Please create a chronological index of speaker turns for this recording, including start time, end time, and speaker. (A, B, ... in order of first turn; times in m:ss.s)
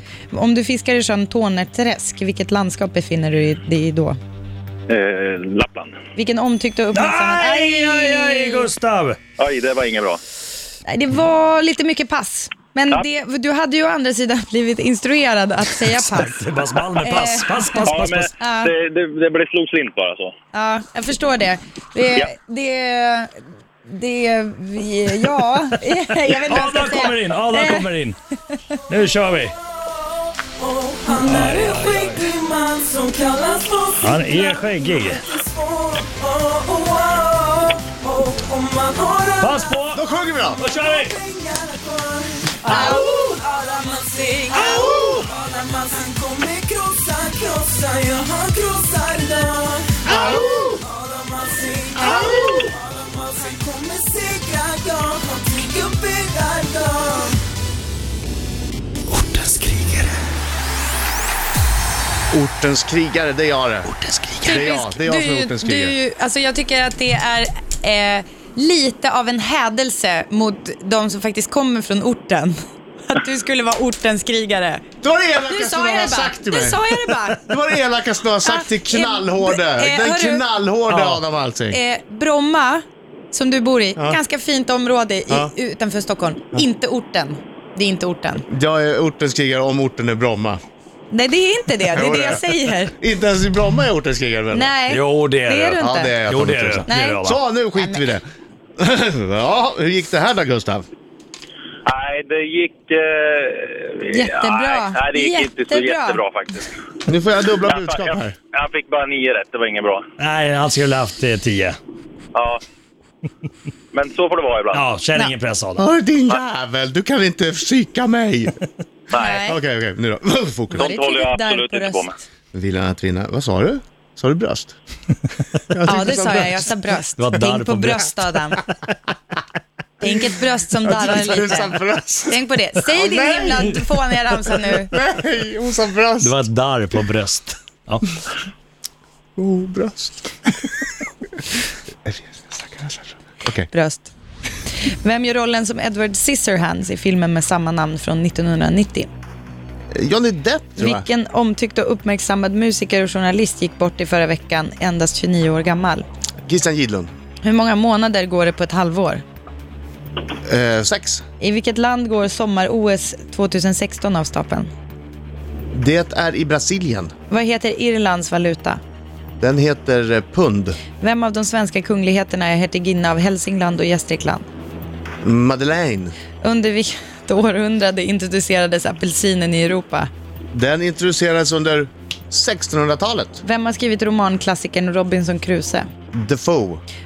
0:00.3-0:04.2 A
0:04.9-0:05.9 B
0:06.1-0:08.7 A
0:06.9-0:09.2 C
0:09.4-0:10.2 B
0:10.8-0:16.4 A
0:16.1-0:18.3 C
0:17.0-0:18.7 A
0:17.8-0:20.3 B
0:20.5-0:27.9 A
0:26.4-0:28.2 C
0:28.9-0:29.6 C
0:30.6-0:39.7 D
0:31.2-0:32.2 C
0:34.0-0:35.3 C
0:39.4-0:40.0 C
0:39.9-0:40.6 E
0:40.6-0:50.1 D
0:40.6-0:41.2 C
0:42.6-0:43.2 A
0:44.5-0:45.3 C
0:50.1-0:50.7 C
0:50.1-0:50.8 E
0:50.7-0:57.4 D
0:59.1-1:00.2 C
1:02.3-1:03.9 E
1:03.8-1:04.6 C
1:04.4-1:06.0 E
1:04.4-1:14.8 A
1:15.0-1:21.8 E
1:15.4-1:17.4 A
1:18.4-1:20.4 A
1:20.9-1:21.2 C
1:21.7-1:28.4 A
1:28.5-1:30.6 E
1:31.1-1:32.9 A
1:31.9-1:34.7 E
1:34.5-1:36.1 A
1:34.9-1:37.4 C
1:35.8-1:38.2 E
1:36.9-1:37.2 A
1:37.8-1:38.0 A
1:38.8-1:40.8 E
1:41.8-1:46.7 B
1:44.1-1:46.2 A
1:47.1-1:48.3 E
1:47.6-1:50.0 B
1:50.2-1:51.8 C
1:52.3-1:52.6 B
1:53.9-1:54.8 B
1:54.7-1:55.8 C
1:55.8-1:58.6 E
1:59.1-1:59.4 B
1:59.1-1:59.6 A
1:59.4-2:00.9 E
2:00.7-2:02.1 B
2:00.7-2:02.2 A
2:02.5-2:04.7 E
2:05.7-2:06.7 E
2:05.8-2:08.6 A
2:07.2-2:08.1 C
2:10.0-2:14.9 A
2:10.8-2:13.8 E
2:14.5-2:16.3 E
2:16.2-2:18.0 C
2:19.4-2:20.3 E
2:22.0-2:23.7 E
2:23.7-2:24.1 A
2:24.8-2:29.1 A
2:29.9-2:31.0 E
2:30.8-2:36.0 A
2:36.5-2:37.1 E
2:37.4-2:39.2 A
2:40.4-2:41.2 E
2:41.4-2:44.7 A
2:45.7-2:47.1 E
2:47.3-2:48.8 A
2:49.4-2:50.8 E
2:51.0-2:54.4 A
2:55.2-2:56.1 E
2:56.4-3:00.1 A
3:00.5-3:03.4 E
3:03.4-3:05.9 A
3:06.1-3:06.8 E